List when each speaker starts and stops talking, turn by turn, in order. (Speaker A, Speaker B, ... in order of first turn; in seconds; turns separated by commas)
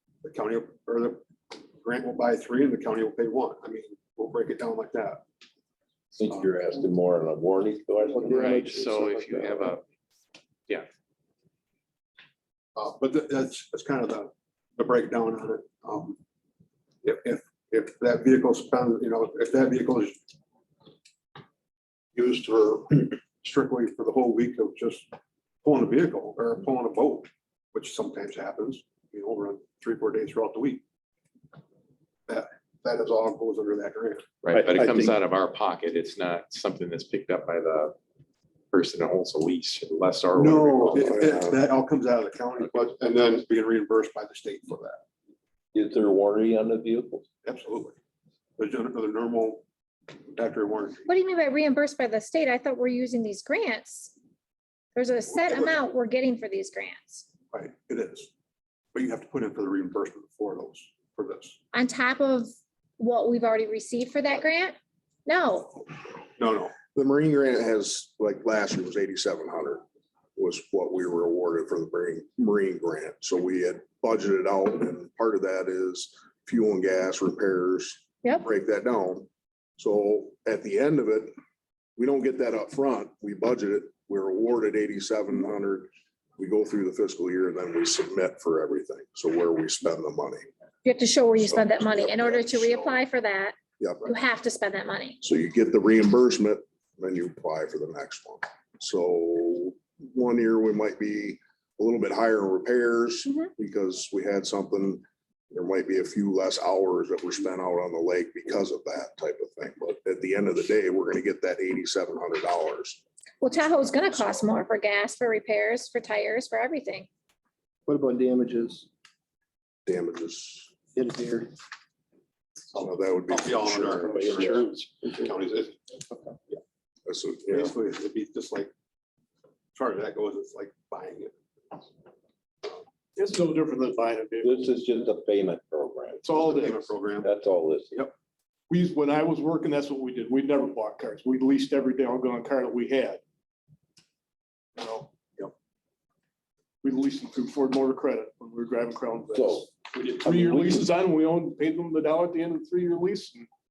Speaker A: 0.2-1.2, Speaker A: 1.8-5.2, Speaker B: 6.1-8.7, Speaker C: 8.2-9.7, Speaker D: 8.3-9.8, Speaker A: 12.8-16.2, Speaker A: 17.0-20.2, Speaker A: 22.1-25.1, Speaker A: 25.6-30.8, Speaker A: 32.3-34.2, Speaker D: 34.4-37.9, Speaker E: 34.7-35.1, Speaker D: 38.7-41.4, Speaker A: 40.4-45.0, Speaker E: 40.9-41.6, Speaker B: 45.7-47.2, Speaker A: 47.4-48.0, Speaker A: 48.6-49.6, Speaker A: 50.2-51.1, Speaker F: 51.1-54.1, Speaker F: 54.9-57.3, Speaker A: 55.4-55.8, Speaker A: 57.5-58.3, Speaker A: 58.9-61.6, Speaker F: 61.7-65.8, Speaker A: 66.4-66.7, Speaker E: 66.9-69.8, Speaker E: 70.3-81.3, Speaker E: 82.0-90.5, Speaker F: 90.8-95.2, Speaker E: 91.4-93.0, Speaker E: 93.8-94.1, Speaker E: 95.2-113.0, Speaker F: 113.4-117.1, Speaker C: 117.9-118.8, Speaker E: 119.8-120.7, Speaker C: 120.9-121.5, Speaker A: 122.7-125.8, Speaker E: 122.8-124.5, Speaker E: 127.0-127.7, Speaker A: 127.5-128.7, Speaker A: 129.7-131.3, Speaker G: 133.2-134.7, Speaker B: 134.4-136.3, Speaker G: 136.2-136.9, Speaker A: 136.3-137.3, Speaker B: 137.2-138.1, Speaker G: 138.7-143.2, Speaker G: 144.8-145.1, Speaker G: 146.8-153.5, Speaker B: 149.3-149.7, Speaker B: 150.2-150.9